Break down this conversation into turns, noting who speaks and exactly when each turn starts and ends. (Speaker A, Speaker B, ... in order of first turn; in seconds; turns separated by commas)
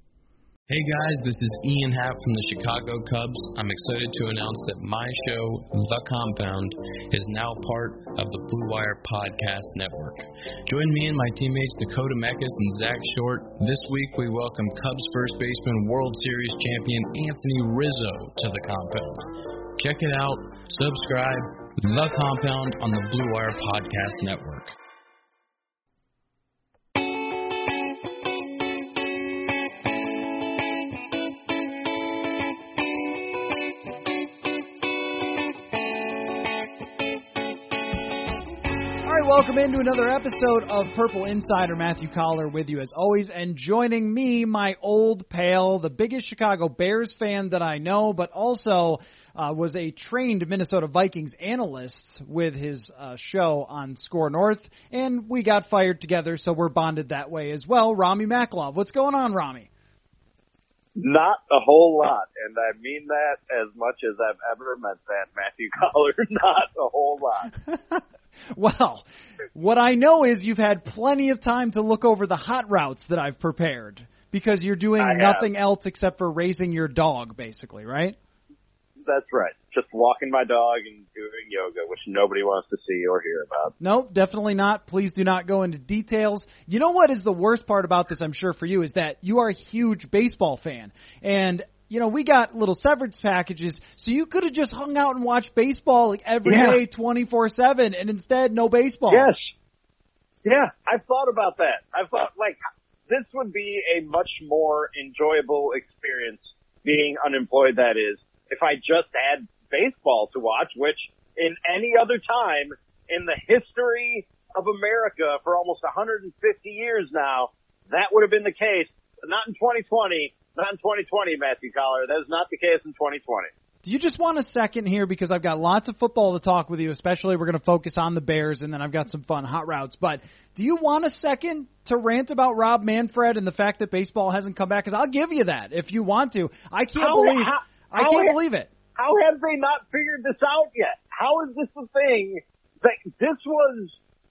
Speaker A: 0.7-24.7, Speaker B: 39.0-59.7, Speaker C: 61.0-67.5, Speaker B: 67.7-68.0, Speaker B: 68.5-78.2, Speaker C: 75.0-75.5, Speaker C: 79.0-83.7, Speaker B: 83.8-99.3, Speaker C: 96.5-96.8, Speaker C: 99.1-99.5, Speaker C: 100.4-102.6, Speaker C: 103.1-123.5, Speaker B: 123.8-138.7, Speaker C: 137.0-138.3, Speaker C: 138.9-144.0